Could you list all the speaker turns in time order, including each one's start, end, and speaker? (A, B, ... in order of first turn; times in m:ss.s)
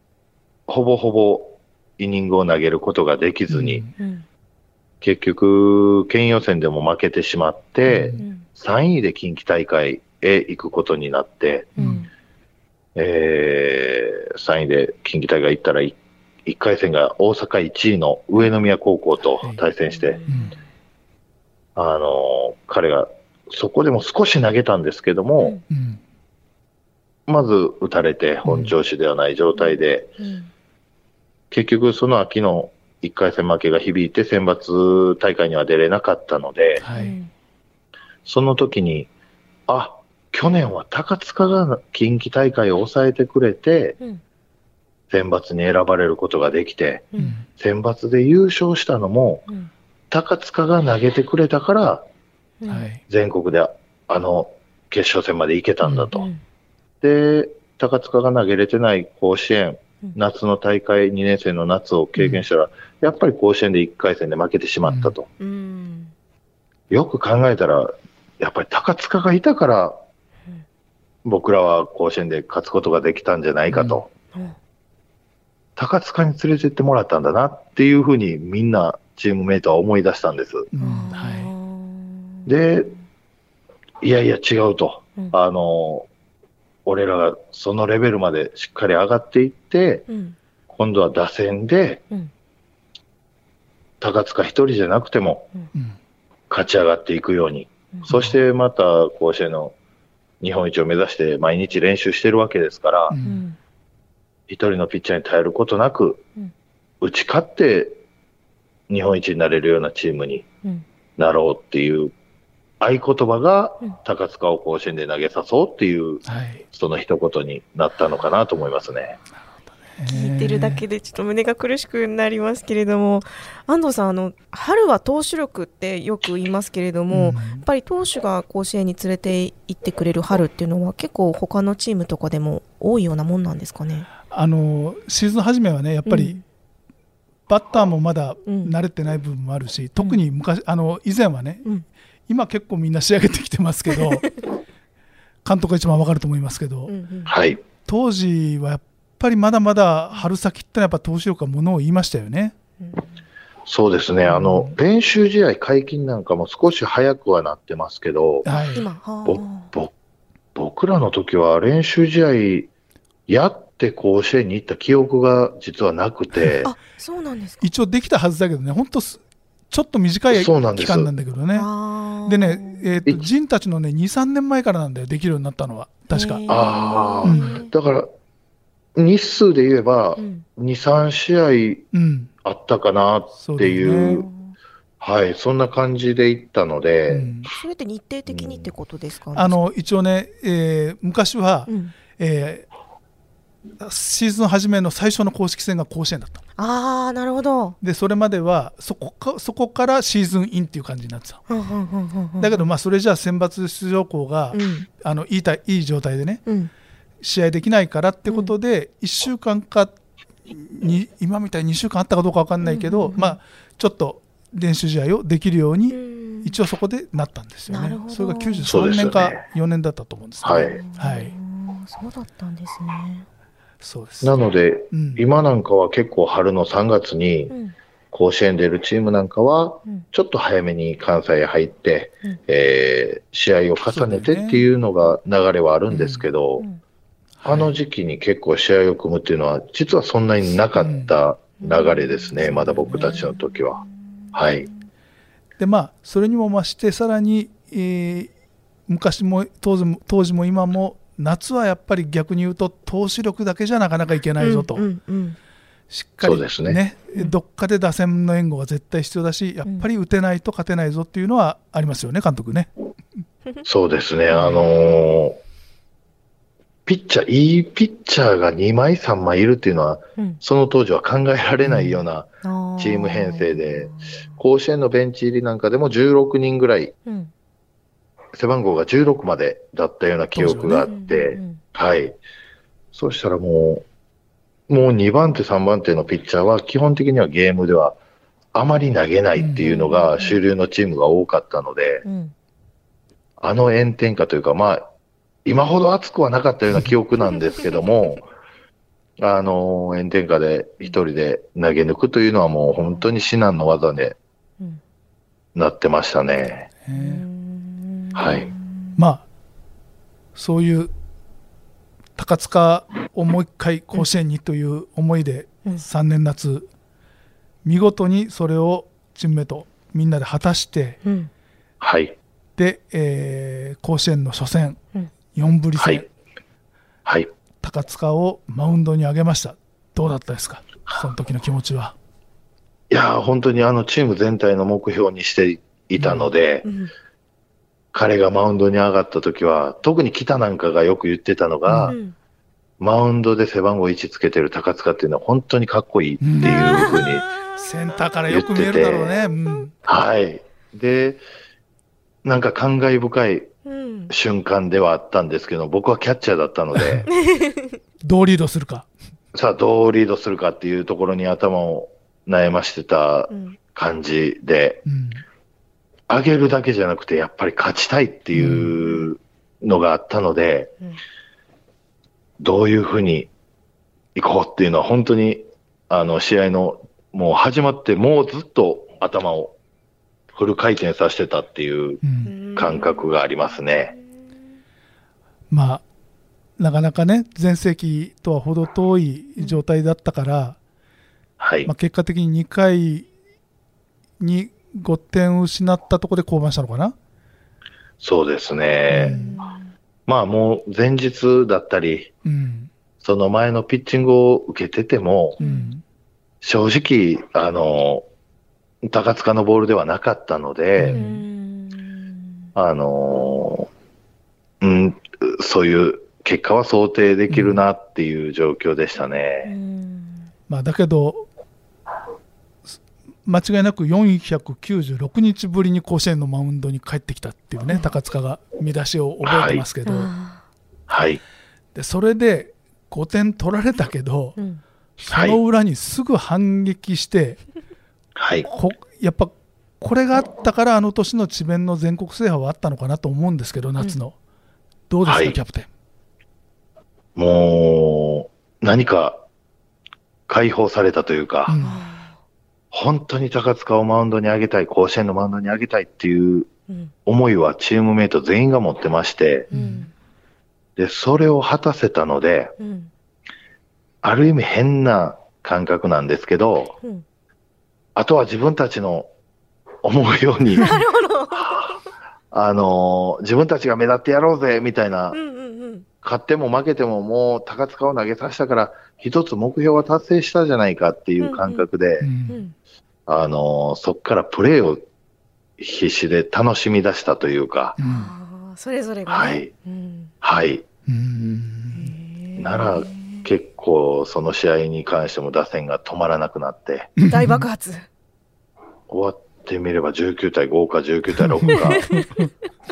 0:00.7-0:03.8 A
0:03.5-0:03.9 B
0:04.0-0:04.2 C
0:05.0-0:11.7 A
0:07.9-0:08.2 B
0:08.2-0:08.4 C
0:11.8-0:12.1 C
0:11.8-0:12.0 B
0:12.9-0:20.2 A
0:20.0-0:20.5 C
0:20.3-0:20.5 B
0:21.8-0:25.6 A
0:25.7-0:26.0 B
0:27.3-0:30.1 A
0:28.4-0:28.7 B
0:29.6-0:30.5 C
0:31.5-0:36.8 A
0:36.8-0:37.2 B
0:36.9-0:37.3 C
0:38.2-0:39.1 A
0:39.7-0:44.0 A
0:45.1-0:49.4 A
0:47.2-0:47.4 B
0:50.1-0:52.1 A
0:52.7-0:53.0 B
0:53.1-0:56.3 A
0:55.8-0:56.1 B
0:56.1-0:56.4 C
0:57.0-1:05.3 A
1:02.2-1:02.4 B
1:04.8-1:05.1 B
1:05.4-1:06.1 C
1:06.9-1:10.0 A
1:11.2-1:14.1 A
1:13.7-1:14.0 B
1:15.8-1:20.7 A
1:20.7-1:21.5 B
1:20.8-1:22.4 C
1:22.4-1:22.9 A
1:24.0-1:26.1 A
1:26.8-1:30.0 A
1:30.1-1:30.4 C
1:30.7-1:32.0 A
1:34.0-1:35.5 A
1:36.5-1:39.8 A
1:40.4-1:43.2 A
1:43.1-1:43.4 B
1:43.2-1:43.6 C
1:44.5-1:46.2 A
1:47.0-1:48.0 A
1:48.9-1:50.4 A
1:51.2-1:52.1 A
1:52.8-1:59.2 A
1:56.2-1:56.6 B
1:59.9-2:00.8 B
2:00.1-2:14.1 C
2:07.1-2:07.6 B
2:14.3-2:16.4 B
2:16.0-2:16.4 C
2:17.5-2:21.6 B
2:18.4-2:18.7 C
2:22.3-2:24.3 B
2:25.4-2:26.9 B
2:26.9-2:27.4 C
2:27.3-2:27.6 A
2:27.8-2:32.5 B
2:32.8-2:33.1 C
2:33.6-2:38.4 A
2:34.2-2:34.8 B
2:38.4-2:38.8 B
2:38.5-2:39.7 C
2:39.2-2:39.9 A
2:40.5-2:42.7 A
2:43.3-2:46.7 A
2:46.6-2:47.6 C
2:47.6-2:51.7 B
2:50.3-2:51.1 A
2:51.5-2:52.9 C
2:52.2-2:56.4 B
2:56.1-2:57.7 C
2:56.5-2:58.1 A
2:57.2-2:57.6 B
2:59.0-3:01.8 A
3:00.2-3:00.4 C
3:01.9-3:02.3 B
3:02.4-3:04.3 A
3:03.4-3:04.3 B
3:04.1-3:04.5 C
3:05.0-3:07.3 A
3:07.1-3:07.5 B
3:07.5-3:09.6 C
3:08.3-3:08.7 A
3:09.3-3:12.7 B
3:11.7-3:11.9 C
3:13.8-3:16.4 B
3:16.6-3:17.8 C
3:17.8-3:21.4 B
3:21.5-3:22.7 C
3:22.4-3:26.4 B
3:24.5-3:24.9 C
3:26.4-3:26.7 C
3:27.2-3:29.9 B
3:28.2-3:28.5 C
3:30.5-3:41.3 B
3:32.6-3:33.4 C
3:35.9-3:36.5 C
3:37.7-3:38.8 C
3:38.7-3:39.4 A
3:40.4-3:40.8 A
3:40.5-3:43.2 C
3:43.8-3:44.4 B
3:44.2-3:47.5 A
3:44.9-3:45.2 B
3:47.5-3:47.7 C
3:48.1-3:56.6 A
3:53.9-3:54.6 B
3:55.9-3:56.2 B
3:57.4-3:57.7 B
3:57.4-4:03.8 A
4:00.8-4:01.1 B
4:01.6-4:02.4 C
4:02.4-4:03.3 B
4:02.9-4:04.7 C
4:04.3-4:04.7 A
4:05.6-4:08.3 B
4:08.9-4:14.8 B
4:14.4-4:15.4 C
4:15.9-4:22.7 B
4:16.2-4:16.8 A
4:23.6-4:25.4 A
4:24.3-4:24.6 B
4:26.8-4:36.9 A
4:31.6-4:32.0 B
4:32.4-4:34.3 C
4:37.0-4:37.3 C
4:38.3-4:42.2 A
4:40.3-4:40.9 B
4:40.8-4:41.6 C
4:42.9-4:43.8 A
4:44.7-4:48.0 A
4:48.5-4:52.0 A
4:49.4-4:49.7 B
4:49.6-4:50.4 C
4:52.0-4:52.3 C
4:53.4-4:54.8 A
4:55.4-4:58.2 A
4:59.2-5:04.2 A
5:05.5-5:06.7 A
5:06.8-5:07.2 B
5:06.9-5:09.0 C
5:08.1-5:08.5 A
5:09.0-5:09.2 B
5:10.3-5:10.9 B
5:12.2-5:16.7 B
5:17.6-5:21.0 B
5:21.0-5:21.3 C
5:21.8-5:22.2 A
5:22.6-5:24.8 B
5:25.3-5:26.1 B
5:25.8-5:26.0 A
5:27.6-5:31.9 B
5:32.9-5:36.6 A
5:36.0-5:36.3 B
5:36.6-5:36.9 C
5:37.9-5:42.0 A
5:41.7-5:42.0 B
5:41.9-5:42.1 C
5:42.8-5:47.3 A
5:46.2-5:46.9 B
5:46.4-5:47.3 C
5:47.6-5:49.7 B
5:48.3-5:49.1 A
5:49.8-5:51.2 A
5:52.2-5:53.5 A
5:53.6-5:54.1 C
5:54.1-5:57.1 A
5:56.7-5:57.1 B
5:57.2-5:57.7 C
5:58.0-5:58.9 B
5:59.3-6:04.8 A
6:03.3-6:03.6 C
6:04.8-6:05.2 B
6:06.1-6:10.7 A
6:08.3-6:08.8 B
6:12.4-6:13.3 A
6:14.1-6:19.5 A
6:20.3-6:23.9 A
6:22.0-6:22.3 B
6:22.2-6:23.1 C
6:23.9-6:24.2 C
6:25.5-6:25.8 B
6:26.6-6:30.6 B
6:29.4-6:29.6 C
6:31.4-6:31.7 A
6:31.6-6:33.1 B
6:34.2-6:36.9 B
6:38.0-6:39.2 A
6:38.9-6:39.3 B
6:38.9-6:39.6 C
6:40.1-6:42.1 A
6:42.2-6:42.7 B
6:43.0-6:45.4 A
6:45.4-6:45.7 C
6:45.4-6:45.8 B
6:46.4-6:48.0 A
6:48.8-6:51.0 A
6:50.8-6:51.2 B
6:50.9-6:52.4 C
6:52.5-6:53.7 A
6:54.6-6:59.5 A
6:57.3-6:57.6 B
6:59.4-7:00.3 C
7:00.5-7:01.2 B
7:03.2-7:10.1 B
7:09.2-7:09.6 A
7:09.8-7:10.4 C
7:10.9-7:11.2 A
7:11.7-7:14.4 B
7:15.0-7:17.4 B
7:15.1-7:15.4 A
7:18.2-7:18.5 A
7:18.4-7:24.1 B
7:24.9-7:25.7 B
7:25.0-7:25.4 A
7:27.2-7:29.2 A
7:30.3-7:31.6 A
7:31.5-7:31.8 B
7:31.6-7:32.2 C
7:32.7-7:36.5 A
7:37.0-7:39.5 A
7:39.5-7:39.9 C
7:39.5-7:39.9 B
7:40.8-7:42.5 A
7:42.6-7:42.9 C
7:44.0-7:46.8 A
7:48.0-7:49.1 A
7:49.8-7:50.8 A
7:50.5-7:51.8 C
7:52.3-7:55.2 A
7:55.1-7:55.8 C
7:56.0-8:02.1 A
8:01.2-8:01.7 C
8:02.0-8:02.4 B
8:02.3-8:02.5 C
8:03.1-8:04.9 A
8:05.6-8:07.8 A
8:07.8-8:08.1 B
8:07.8-8:10.1 C
8:09.1-8:09.5 A
8:10.2-8:10.6 A
8:10.9-8:11.9 B
8:11.7-8:13.2 C
8:12.4-8:16.9 A
8:17.0-8:17.4 B
8:17.1-8:17.8 C
8:18.9-8:21.8 A
8:21.3-8:22.3 B
8:21.6-8:22.0 C